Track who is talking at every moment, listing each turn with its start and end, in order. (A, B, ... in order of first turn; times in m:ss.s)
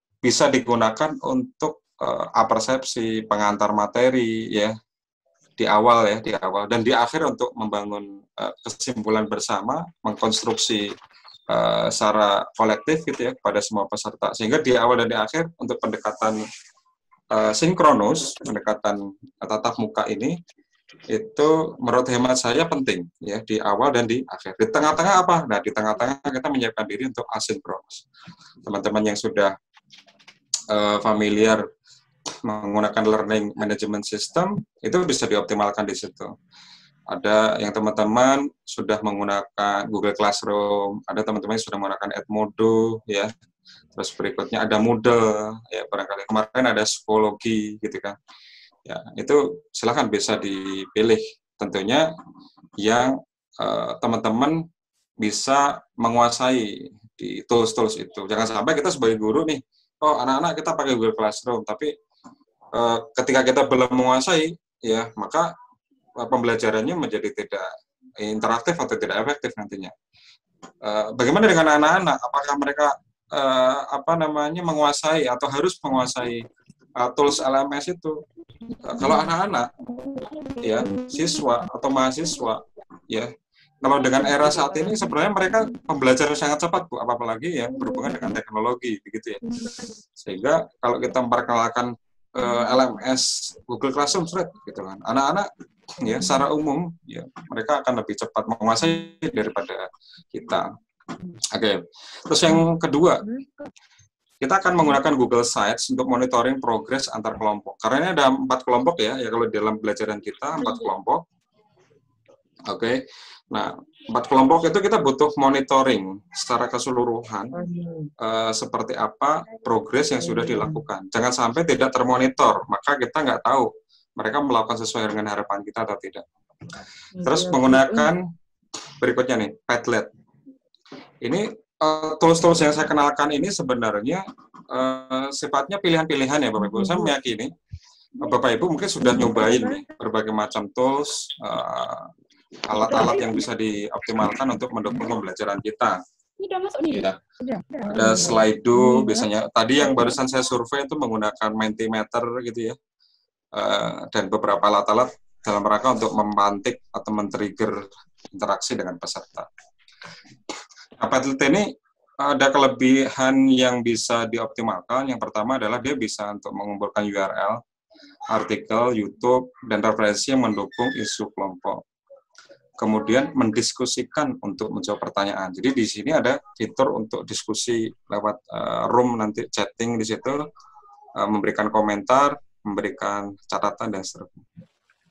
0:00.2-0:04.8 A
0:05.6-0:10.9 A
0:11.5-0:16.4 A
0:17.3-0:20.4 A
0:21.1-0:28.0 A
0:28.7-0:29.5 A
0:30.7-0:31.6 A
0:32.4-0:36.3 A
0:37.1-0:43.3 A
0:44.0-0:48.2 A
0:48.9-0:52.1 A
0:52.8-0:54.6 A
0:55.2-1:01.9 A
1:02.8-1:05.5 A
1:06.2-1:07.7 A
1:08.2-1:09.9 A
1:10.8-1:16.4 A
1:17.0-1:18.2 A
1:18.8-1:19.7 A
1:20.6-1:23.3 A
1:23.8-1:29.4 A
1:30.2-1:35.5 A
1:36.0-1:40.7 A
1:41.5-1:43.2 A
1:44.4-1:51.2 A
1:52.7-1:53.0 A
1:53.5-1:57.5 A
1:57.6-1:58.1 B
1:58.2-2:06.2 A
2:00.2-2:00.8 B
2:07.2-2:08.1 B
2:07.2-2:08.2 A
2:09.0-2:10.1 A
2:11.2-2:17.5 A
2:16.7-2:17.1 B
2:18.2-2:22.1 A
2:19.0-2:19.8 B
2:22.7-2:26.0 A
2:22.9-2:23.3 B
2:26.5-2:26.8 B
2:26.9-2:27.2 A
2:27.4-2:29.3 B
2:27.9-2:32.8 A
2:33.6-2:39.5 A
2:41.0-2:41.7 A
2:42.2-2:47.6 A
2:48.3-2:51.8 A
2:52.8-3:00.4 A
3:01.2-3:04.4 A